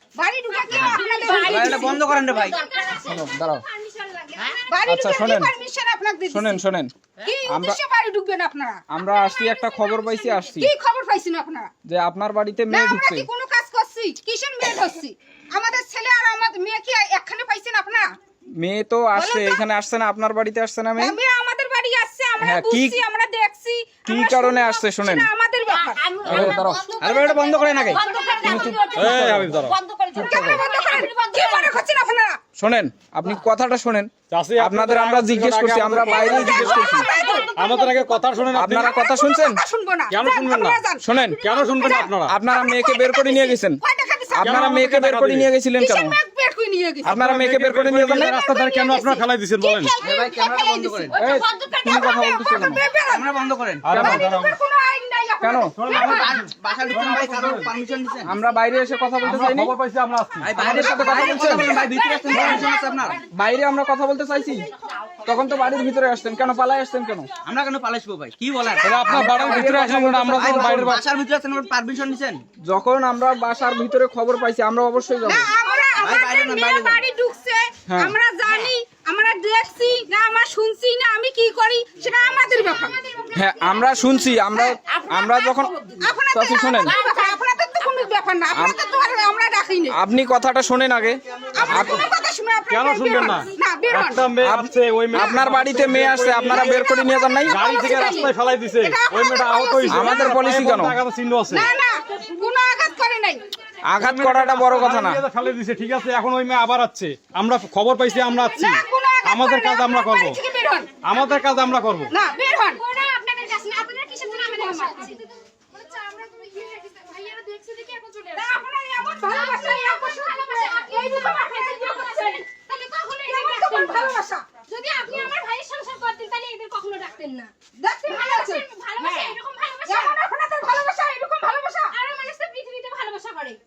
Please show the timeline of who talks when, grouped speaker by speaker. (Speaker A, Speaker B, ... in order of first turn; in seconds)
Speaker A: 0.2-2.2, 4.7-6.6, 7.2-11.7, 12.7-18.1, 19.1-19.6, 21.0-26.6, 27.9-28.9, 30.1-32.4, 36.1-37.5, 38.6-44.7, 45.8-47.2, 48.3-50.7, 52.1-53.3, 54.0-56.5, 60.9-63.1, 75.2-83.0, 86.0-90.0, 91.5-94.3, 97.5-100.4, 101.5-103.4, 108.3-111.0, 112.1-112.8, 114.0-115.2, 118.3-122.4, 123.2-124.5, 127.8-129.3, 129.9-132.0
Speaker B: 0.5-4.8, 25.7-31.8, 36.5-38.5, 50.1-52.7, 62.1-63.2, 75.5-75.8, 82.7-86.1, 86.8-89.4, 112.7-118.6, 119.2-127.5, 128.1-130.2, 131.8-133.6
Speaker C: 1.3-2.6, 27.0-28.0, 50.0-51.2, 53.1-54.2, 55.9-58.4, 60.4-63.2, 67.4-69.6, 70.3-72.4, 75.9-77.0
Speaker D: 3.0-3.6, 4.9-5.5, 6.3-6.9, 7.5-7.8, 8.9-10.7, 11.9-13.3, 18.6-21.2, 22.4-23.0, 24.1-25.3, 26.2-26.8, 28.4-30.6, 32.6-37.1, 38.5-39.6, 41.0-41.4, 42.1-43.8, 44.3-46.2, 47.0-48.4, 51.2-52.8, 53.9-54.3, 55.4-55.8, 58.2-59.7, 60.5-61.8, 63.3-64.7, 65.2-67.3, 68.9-71.0, 72.7-75.5, 77.9-78.2, 83.3-85.7, 86.3-87.0, 88.5-88.8, 89.9-92.1, 94.4-97.6, 99.9-101.0, 103.8-105.2
Speaker E: 26.3-26.6, 28.9-29.8, 34.3-36.9, 37.5-38.9, 40.1-42.4, 44.4-45.5, 47.0-49.9, 53.8-54.6, 55.8-57.7, 59.2-60.9, 62.3-62.6, 68.8-71.0, 91.6-92.0, 92.7-96.9, 97.5-101.7, 104.0-110.4, 111.0-112.1